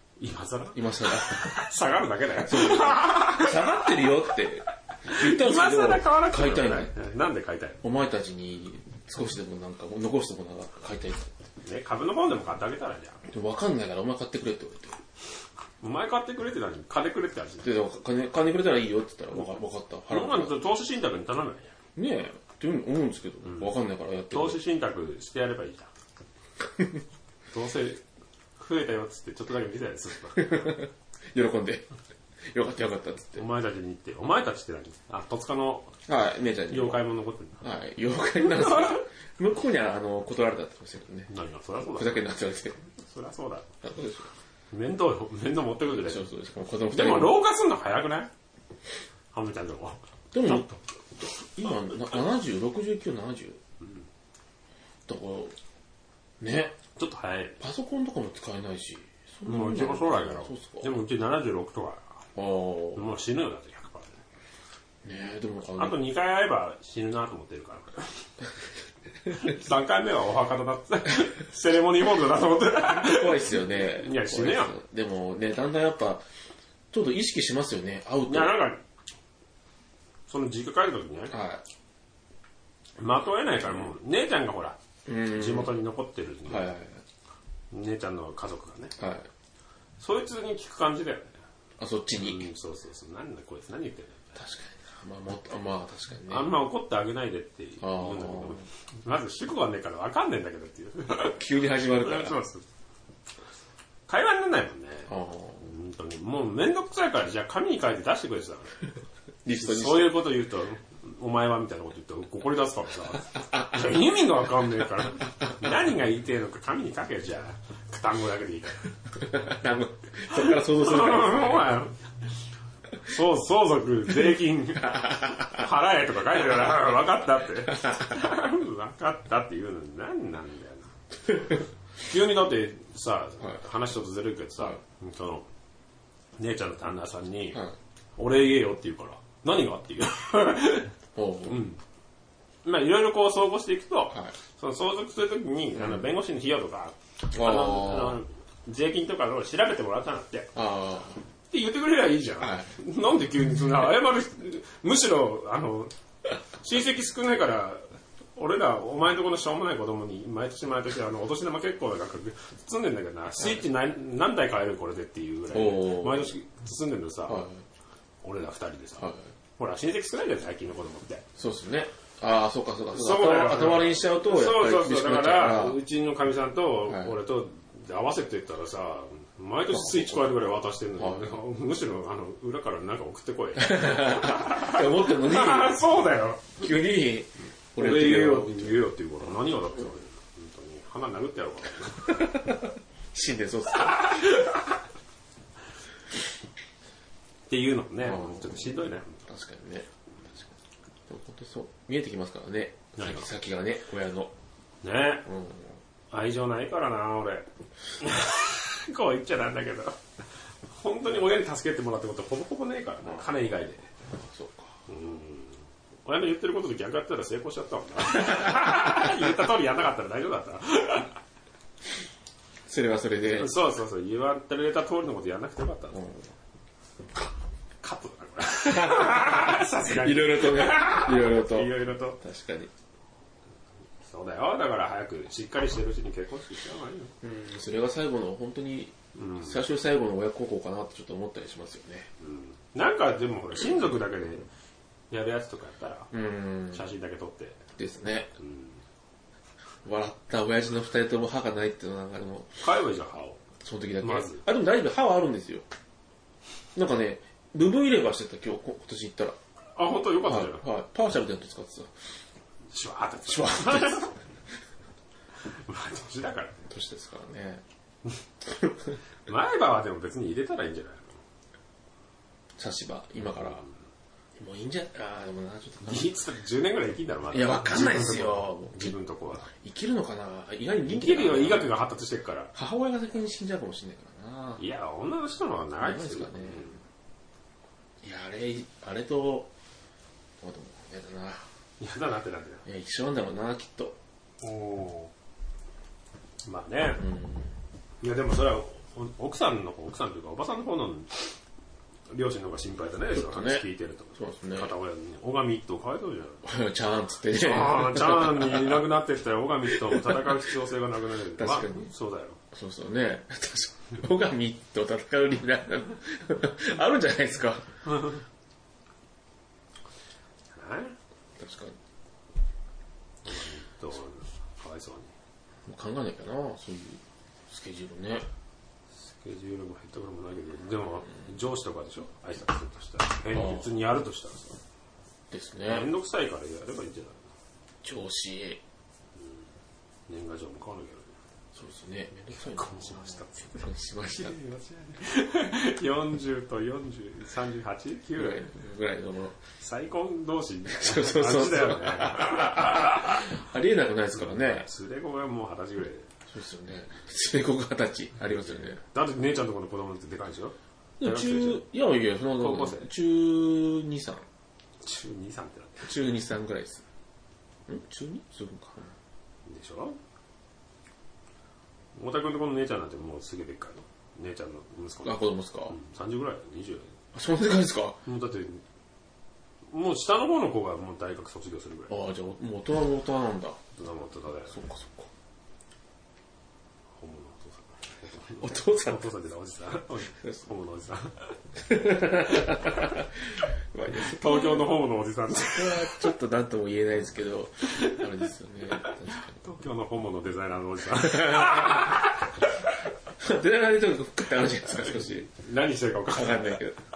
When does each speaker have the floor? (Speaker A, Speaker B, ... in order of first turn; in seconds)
Speaker A: 0.2-3.8, 5.0-7.8, 11.6-13.2, 15.8-17.7, 20.1-21.7, 23.4-23.7, 24.3-25.9, 27.5-28.0, 28.6-30.7, 33.4-35.9, 36.7-37.6, 38.6-39.0, 41.3-42.3, 43.0-43.7, 44.7-46.3, 46.9-48.3, 49.3-50.7, 57.0-57.6, 59.4-62.2, 62.9-64.2, 65.8-68.3, 69.2-74.8, 78.3-78.8, 80.3-81.3, 83.0-86.7, 87.7-89.0, 90.0-91.4, 92.2-94.2, 96.3-102.6, 104.1-108.7, 109.5-118.9, 120.3-122.0, 123.0-135.5, 136.4-137.6, 138.2-140.9, 141.5-141.8, 142.6-150.6, 151.5-155.9, 156.6-157.8, 158.3-167.5, 168.2-171.2, 172.9-186.6, 187.8-192.5, 193.9-194.6, 197.5-199.2, 203.0-203.2, 204.8-205.3, 206.1-207.5, 208.0-210.0, 210.7-213.9, 214.9-221.1, 223.3-226.1, 227.8-232.2, 234.0-237.2, 239.1-239.6, 242.2-244.5, 245.1-246.1, 246.7-247.6, 248.4-248.8, 252.6-253.4, 254.0-254.4, 259.8-260.6, 262.7-264.2, 265.4-266.7, 269.2-271.2, 275.9-279.5, 280.8-282.5, 284.6-286.8, 291.8-292.6, 294.4-295.1, 296.4-297.0, 298.0-301.4, 302.1-306.5, 307.3-312.4, 317.9-318.2, 320.5-320.9, 323.2-325.1, 329.1-334.6, 335.7-337.2, 340.1-341.1, 342.3-348.5, 349.6-353.3, 354.1-356.1, 358.8-361.6, 362.4-362.9, 364.8-365.9, 369.4-370.0, 371.9-376.9, 378.0-378.6, 379.7-381.9, 383.7-384.6, 387.0-391.3, 392.2-392.8, 393.9-396.1, 398.8-402.2, 404.7-406.6
Speaker B: 0.7-1.6, 2.4-6.9, 7.8-11.3, 13.3-15.0, 17.6-20.5, 21.9-24.6, 30.3-31.9, 32.5-33.5, 36.0-37.0, 37.6-41.3, 41.9-42.9, 43.8-44.3, 45.9-47.4, 50.3-53.6, 55.1-55.5, 56.4-56.8, 57.6-61.0, 62.3-63.1, 65.0-66.0, 72.8-76.2, 76.9-78.6, 81.3-81.6, 85.0-85.7, 86.5-87.0, 89.0-89.3, 91.8-92.5, 94.3-96.6, 97.8-98.6, 101.1-102.4, 105.1-105.7, 109.4-110.2, 113.5-113.8, 119.2-121.8, 124.8-125.6, 141.1-141.6, 147.3-148.2, 150.5-151.2, 152.4-152.7, 165.5-166.3, 167.2-167.6, 171.3-175.8, 176.9-177.1, 179.7-180.2, 181.0-181.3, 183.6-185.8, 186.6-188.8, 192.1-194.5, 198.0-199.9, 201.1-204.3, 205.2-205.8, 214.1-214.7, 222.7-223.5, 225.9-226.3, 228.6-232.7, 237.2-242.1, 246.1-246.8, 247.8-248.3, 249.8-252.6, 253.6-255.7, 256.7-259.4, 260.2-261.9, 263.3-264.1, 266.7-267.6, 268.5-268.8, 272.6-273.6, 274.4-276.1, 277.3-278.9, 279.5-281.7, 282.5-284.6, 285.8-286.8, 288.0-289.5, 290.4-291.4, 292.6-294.0, 297.0-297.5, 303.1-304.7, 306.4-308.8, 309.7-310.4, 311.4-311.9, 312.5-318.1, 321.4-321.8, 325.6-328.2, 333.4-333.6, 335.3-335.9, 337.8-338.6, 341.5-344.4, 348.1-349.4, 350.7-354.7, 356.3-358.8, 361.0-364.2, 365.8-366.8, 367.7-368.9, 375.0-375.8, 377.1-378.0, 381.9-383.6, 384.5-385.1, 388.4-389.0, 391.6-394.7, 395.3-399.4, 400.9-402.1, 403.2-405.3, 406.1-406.8